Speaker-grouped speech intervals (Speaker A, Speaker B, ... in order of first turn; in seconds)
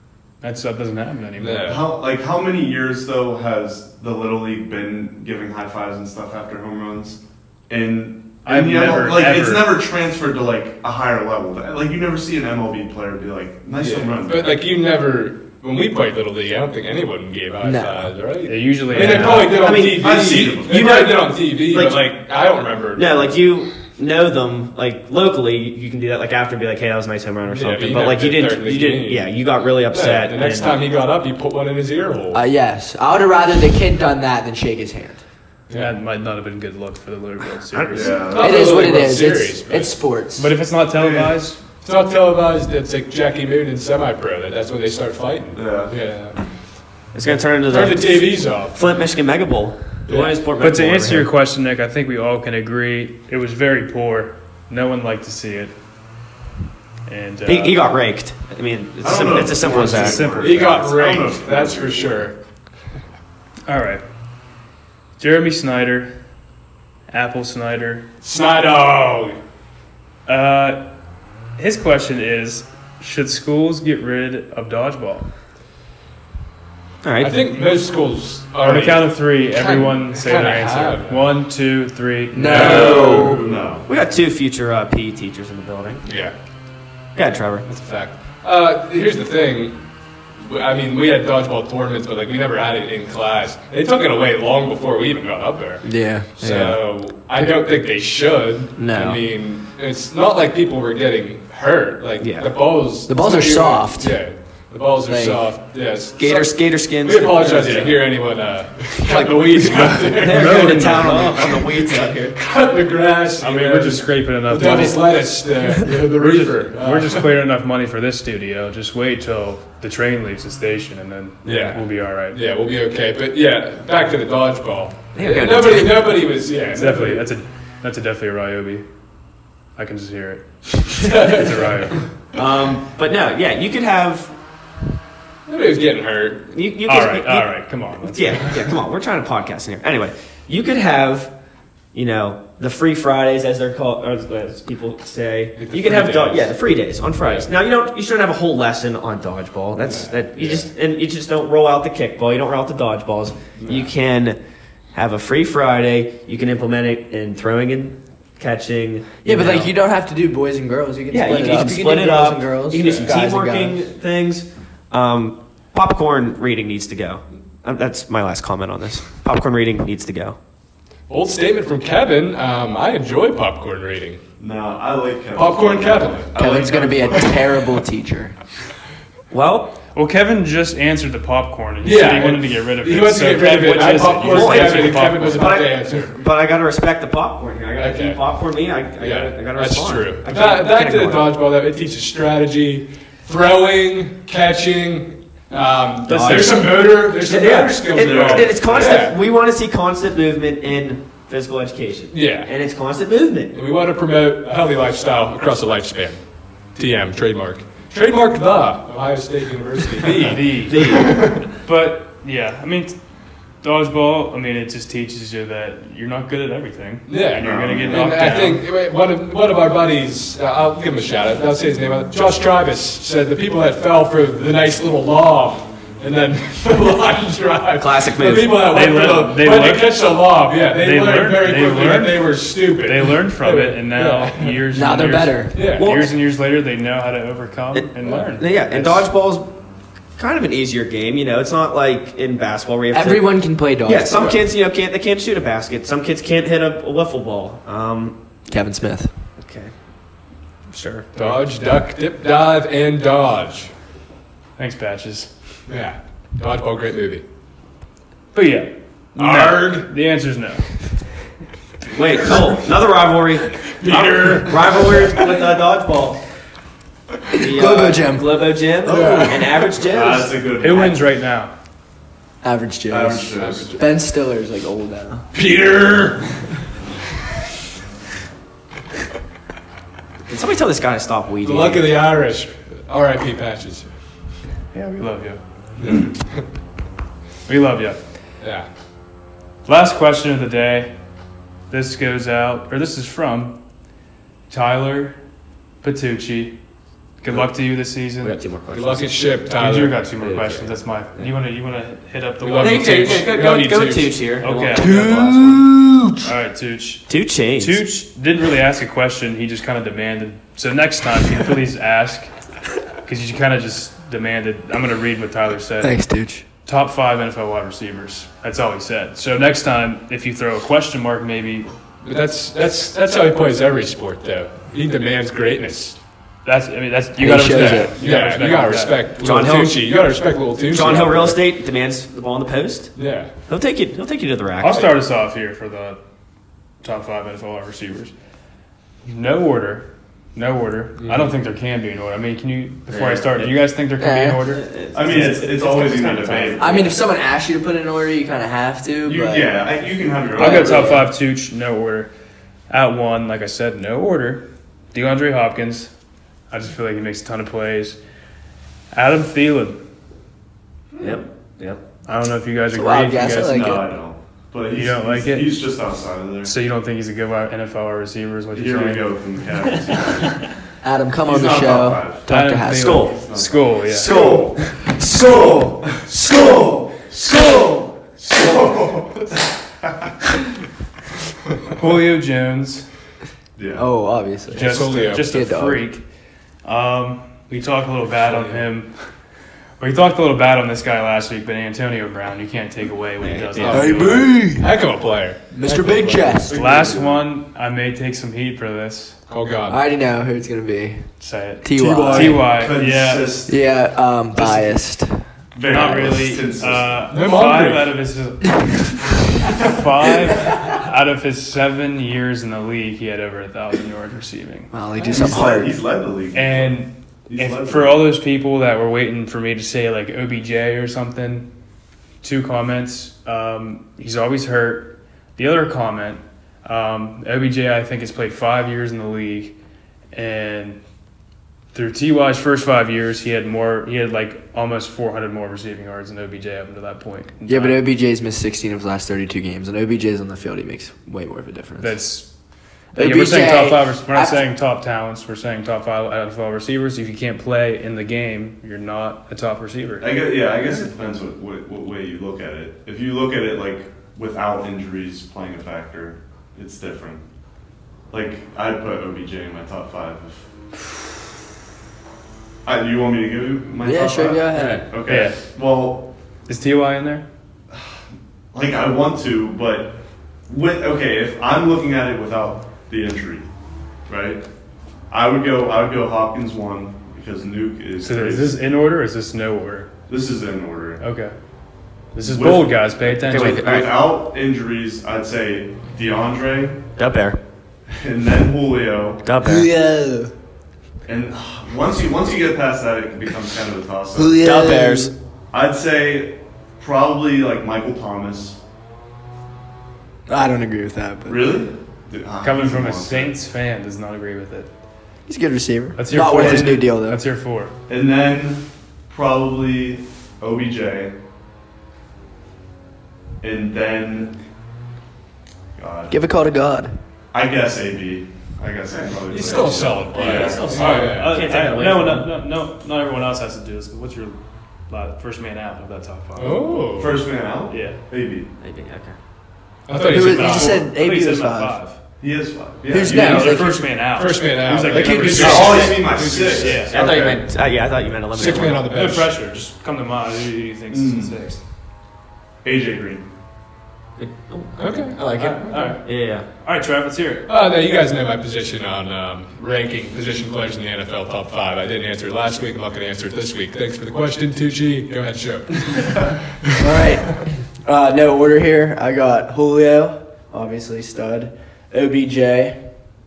Speaker A: 0.4-1.8, 8.4-9.8, 18.5-19.6, 35.7-38.3, 40.4-41.6, 50.6-55.7, 57.1-57.8, 59.9-60.7, 63.7-64.0, 65.2-66.1, 67.1-68.1, 70.3-70.8, 71.6-75.3, 78.6-83.4, 109.7-111.7, 113.4-115.2, 116.1-122.4, 126.7-128.8, 129.8-132.1, 136.9-138.6, 179.9-185.5, 196.2-196.5, 210.2-213.0, 213.6-218.7, 228.7-229.9, 230.8-239.1, 254.6-255.3, 258.3-260.7, 270.6-271.5, 284.7-285.4, 287.5-288.0, 289.7-290.9, 291.7-293.6, 294.5-295.2, 295.8-296.6, 297.2-298.4, 299.6-303.3, 304.4-305.6, 306.2-312.3, 313.1-316.0, 316.7-321.7, 326.4-329.0, 334.6-336.0, 336.8-338.1, 339.1-345.4, 350.4-352.1, 352.7-355.9, 356.5-358.0, 358.9-359.8, 362.1-363.8, 364.7-365.6, 366.4-369.1, 372.3-374.6, 381.8-382.9, 384.5-386.0, 386.6-388.9, 389.8-394.4, 396.5-399.2, 401.2-403.5, 404.4-404.7, 405.7-414.7, 416.3-421.5, 422.2-429.6, 430.1-430.8, 431.7-437.8, 441.8-442.3, 443.0-450.1, 465.1-465.4, 466.5-467.2, 478.0-479.9, 481.0-481.3, 482.1-483.8, 502.4-504.7, 506.0-507.7, 520.3-524.4, 524.9-526.9, 527.7-528.0, 530.1-532.0, 533.0-537.0, 538.9-541.6, 545.3-547.5
Speaker B: 1.4-1.8, 13.8-23.4, 27.5-29.3, 29.9-32.4, 35.7-36.0, 38.3-40.0, 41.8-46.4, 47.6-48.8, 50.1-50.5, 60.3-62.4, 68.2-69.4, 77.2-81.3, 82.4-83.4, 86.0-86.3, 87.7-89.8, 90.4-117.3, 121.5-127.2, 131.0-131.7, 135.5-136.5, 145.6-146.5, 147.2-147.5, 149.8-150.7, 153.6-153.9, 171.1-174.2, 175.3-176.3, 181.8-186.2, 187.8-188.2, 189.0-199.2, 202.1-202.5, 203.5-206.2, 206.8-211.4, 217.1-234.7, 235.5-235.9, 244.2-244.4, 251.2-253.7, 255.7-257.2, 259.2-259.9, 263.6-265.3, 268.9-269.5, 273.4-273.8, 275.3-276.4, 281.4-283.9, 285.8-286.4, 288.4-288.7, 298.7-300.1, 302.4-304.2, 322.0-326.0, 327.4-331.4, 333.0-333.3, 341.0-341.3, 384.5-385.3, 388.2-388.7, 393.6-396.4, 399.3-399.8, 401.8-402.1, 407.1-407.9, 519.3-521.4, 526.4-527.2, 529.9-530.9, 534.0-537.4, 538.3-539.3, 544.8-545.3, 547.5-556.4
Speaker C: 1.7-14.6, 19.7-20.8, 37.9-38.9, 40.9-41.4, 45.5-45.9, 59.0-62.3, 83.3-83.9, 174.4-177.7, 198.0-199.0, 217.4-218.2, 269.9-271.0, 272.9-273.8, 344.9-346.9, 349.0-351.0, 363.4-366.5, 368.5-370.4, 371.2-372.3, 373.1-374.6, 378.3-379.3, 379.8-380.1, 383.6-383.9, 396.5-397.3, 402.0-403.6, 405.6-407.0, 415.1-418.1, 450.0-457.2, 458.1-460.5, 462.6-466.1, 467.7-468.0, 468.5-469.9, 470.5-473.5, 474.1-474.4, 475.1-478.6, 480.1-481.0, 482.2-486.8, 487.9-489.2, 491.1-494.4, 495.5-498.6, 501.3-503.4, 506.2-506.9, 507.9-511.1, 513.4-514.4, 515.8-516.2, 517.3-520.7, 527.0-528.5, 532.2-533.8, 535.4-537.2, 540.9-541.4, 542.6-543.2
Speaker D: 17.6-18.1, 32.3-35.2, 38.4-40.5, 82.3-83.5, 95.8-96.5, 103.1-104.2, 105.1-105.4, 159.2-163.8, 176.4-178.3, 234.7-235.7, 242.9-244.2, 248.5-249.1, 267.4-269.4, 272.4-275.3, 304.8-306.2, 315.8-316.4, 327.2-328.0, 344.0-344.4, 346.6-349.5, 350.4-351.1, 362.7-363.9, 370.8-373.1, 383.8-385.9, 393.7-394.7, 395.5-396.6, 399.7-401.1, 401.6-402.6, 403.5-405.2, 414.7-415.8, 437.5-442.0, 442.9-444.4, 463.8-464.9, 489.4-490.3, 494.1-495.1, 500.3-501.6, 505.3-507.2, 516.1-516.9, 530.0-531.8, 532.9-533.8, 534.9-535.9, 556.8-562.8
Speaker E: 19.0-22.2, 22.9-30.8, 37.7-38.3, 47.1-51.3, 57.5-60.4, 77.0-77.4, 82.7-83.0, 83.9-86.0, 87.2-87.7, 96.4-96.8, 98.8-99.2, 102.2-102.5, 106.2-108.1, 109.0-112.4, 125.2-126.1, 132.3-134.3, 136.5-141.3, 141.9-154.4, 154.9-159.7, 161.1-170.4, 179.3-179.8, 184.3-191.3, 196.1-203.6, 210.7-211.2, 227.8-228.5, 235.7-236.2, 237.7-239.5, 240.2-248.2, 249.4-249.7, 250.7-251.1, 261.9-266.2, 267.4-270.4, 280.3-281.9, 298.2-299.1, 300.2-301.3, 302.6-305.5, 307.1-307.8, 329.2-329.8, 330.7-332.9, 333.5-334.9, 342.9-343.6, 344.5-346.9, 361.0-361.8, 372.7-373.2, 373.9-374.6, 375.2-375.9, 376.5-377.1, 393.2-394.0, 464.6-464.8, 483.1-483.9, 487.0-487.4, 489.2-489.7, 494.4-495.1, 520.2-522.3, 528.6-529.1, 535.4-536.3, 536.9-538.9, 544.2-546.5